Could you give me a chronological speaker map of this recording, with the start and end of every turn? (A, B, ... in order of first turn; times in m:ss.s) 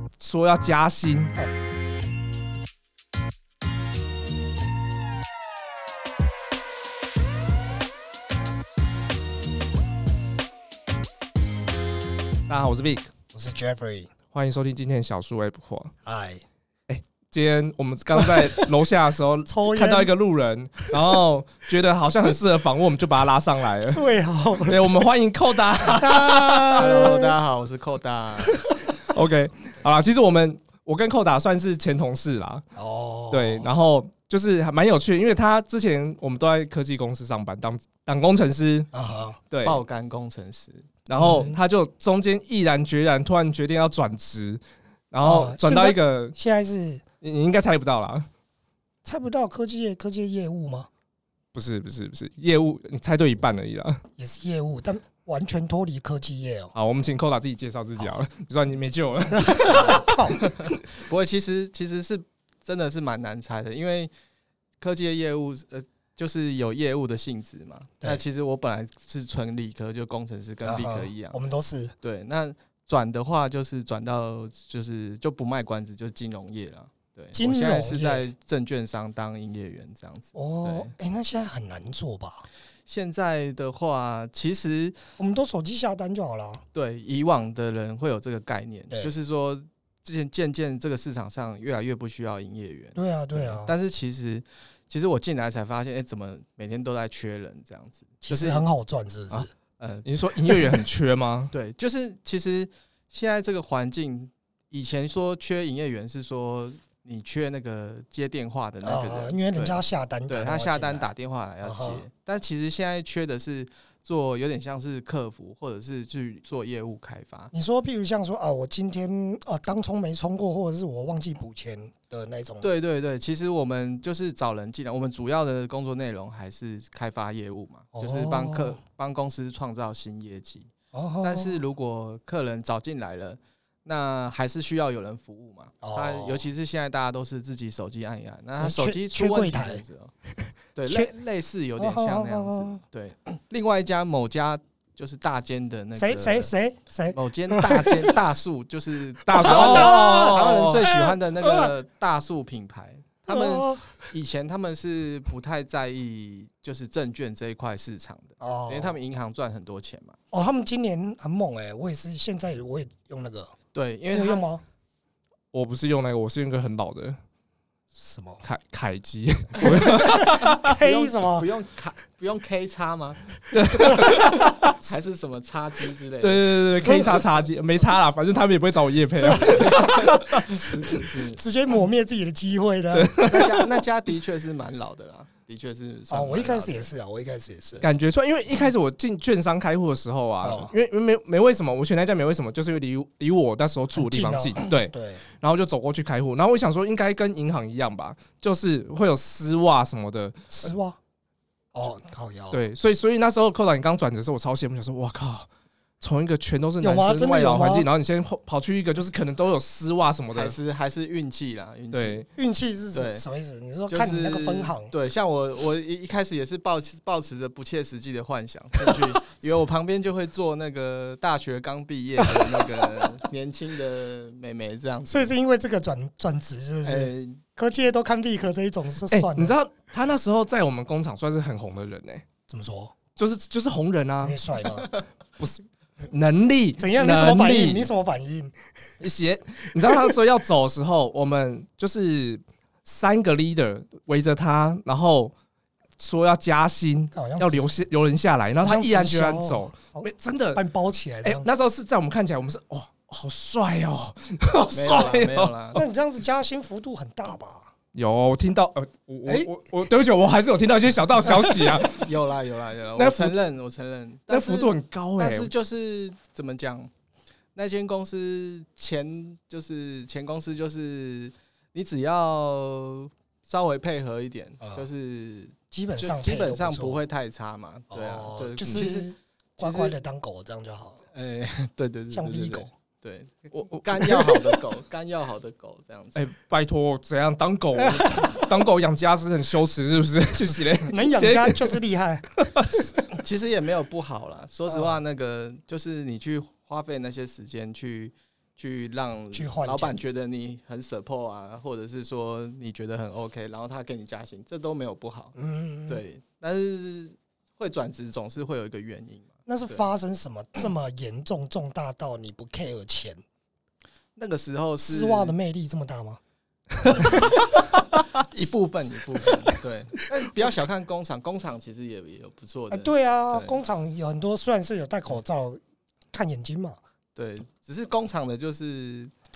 0:00.2-0:01.3 A
0:12.5-0:13.1 A
0:13.3-0:14.1 B
0:14.3-0:15.9 A
0:16.0-0:16.4 B
0:16.9-0:24.0 A
0:19.5-0:20.1 B
0:23.9-0:24.9 B
0:24.6-0:26.8 A
0:25.9-0:27.4 B
0:26.7-0:28.7 C
0:28.4-0:28.9 B
0:29.1-0:32.6 A
0:32.8-0:33.7 B
0:33.3-0:38.9 A
0:38.9-0:39.4 B
0:39.5-0:39.8 A
0:39.6-0:40.9 C
0:41.1-0:46.4 A
0:41.2-0:41.6 B
0:45.2-0:47.0 B
0:47.2-0:48.3 A
0:49.0-0:50.9 B
0:51.5-0:54.0 A
0:54.2-0:56.7 B
0:56.7-1:00.7 A
0:59.3-1:00.4 B
1:00.4-1:04.1 C
1:04.8-1:11.4 C
1:10.6-1:11.9 B
1:12.0-1:20.9 C
1:17.3-1:18.2 B
1:20.3-1:22.5 B
1:22.9-1:25.0 C
1:25.2-1:26.6 B
1:26.7-1:38.7 C
1:32.9-1:33.7 B
1:38.2-1:39.5 B
1:39.8-1:40.0 C
1:40.0-1:41.5 A
1:41.5-1:57.5 C
1:48.8-1:51.1 B
1:51.6-1:52.0 B
1:57.5-2:02.7 B
2:02.6-2:10.7 C
2:07.9-2:08.8 B
2:10.9-2:11.6 B
2:11.2-2:20.1 C
2:15.8-2:16.4 B
2:18.6-2:19.8 B
2:20.7-2:26.5 C
2:20.9-2:21.1 B
2:21.8-2:22.8 B
2:25.9-2:28.2 B
2:27.1-2:40.2 C
2:29.2-2:30.9 A
2:29.3-2:31.7 B
2:33.3-2:34.0 B
2:38.4-2:39.0 B
2:40.3-2:43.5 B
2:43.7-2:44.5 C
2:44.1-2:44.6 B
2:45.5-2:47.2 A
2:47.9-2:48.4 B
2:48.4-2:50.7 A
2:49.8-2:51.5 B
2:50.6-2:53.4 C
2:53.5-2:54.8 A
2:53.8-2:54.2 B
2:54.7-2:56.9 C
2:56.2-3:00.7 A
2:56.8-2:57.2 B
2:59.4-3:01.4 C
3:01.3-3:03.6 B
3:02.9-3:03.6 A
3:03.2-3:06.9 C
3:06.1-3:07.9 B
3:07.8-3:20.5 A
3:10.4-3:10.7 B
3:13.9-3:15.2 B
3:20.5-3:21.0 B
3:21.7-3:22.6 B
3:22.5-3:25.5 A
3:26.0-3:30.6 A
3:26.8-3:27.9 B
3:30.3-3:32.2 C
3:31.9-3:32.2 A
3:32.4-3:34.9 B
3:32.9-3:33.2 C
3:33.9-3:45.3 C
3:38.8-3:39.1 B
3:42.2-3:43.2 B
3:45.1-3:49.6 B
3:46.8-3:47.4 C
3:49.1-3:52.2 A
3:52.5-3:53.0 B
3:53.2-3:54.4 A
3:54.2-3:54.9 B
3:54.7-3:55.0 C
3:55.4-3:57.9 A
3:56.8-3:58.6 B
3:59.0-4:05.3 A
3:59.8-4:00.1 B
4:06.0-4:10.6 A
4:07.1-4:07.7 B
4:08.6-4:11.4 B
4:11.2-4:15.8 A
4:14.7-4:15.8 C
4:15.7-4:17.7 B
4:17.9-4:22.1 A
4:21.3-4:21.6 B
4:21.8-4:26.9 C
4:23.0-4:23.3 A
4:24.3-4:25.5 A
4:27.6-4:40.0 C
4:35.7-4:37.0 B
4:37.9-4:41.0 B
4:41.1-4:46.2 C
4:42.1-4:42.7 B
4:44.0-4:44.4 B
4:46.1-4:51.8 A
4:47.8-4:48.4 B
4:50.9-4:53.2 B
4:52.4-4:52.8 A
4:53.2-5:05.3 C
4:54.7-4:55.0 B
4:59.3-5:00.0 B
5:05.4-5:06.0 B
5:05.9-5:09.8 C
5:09.5-5:13.2 B
5:14.2-5:15.3 C
5:14.8-5:16.2 B
5:16.8-5:18.0 A
5:16.8-5:17.3 B
5:16.9-5:17.5 C
5:18.1-5:23.6 C
5:22.7-5:25.6 B
5:26.1-5:26.8 B
5:27.1-5:29.1 C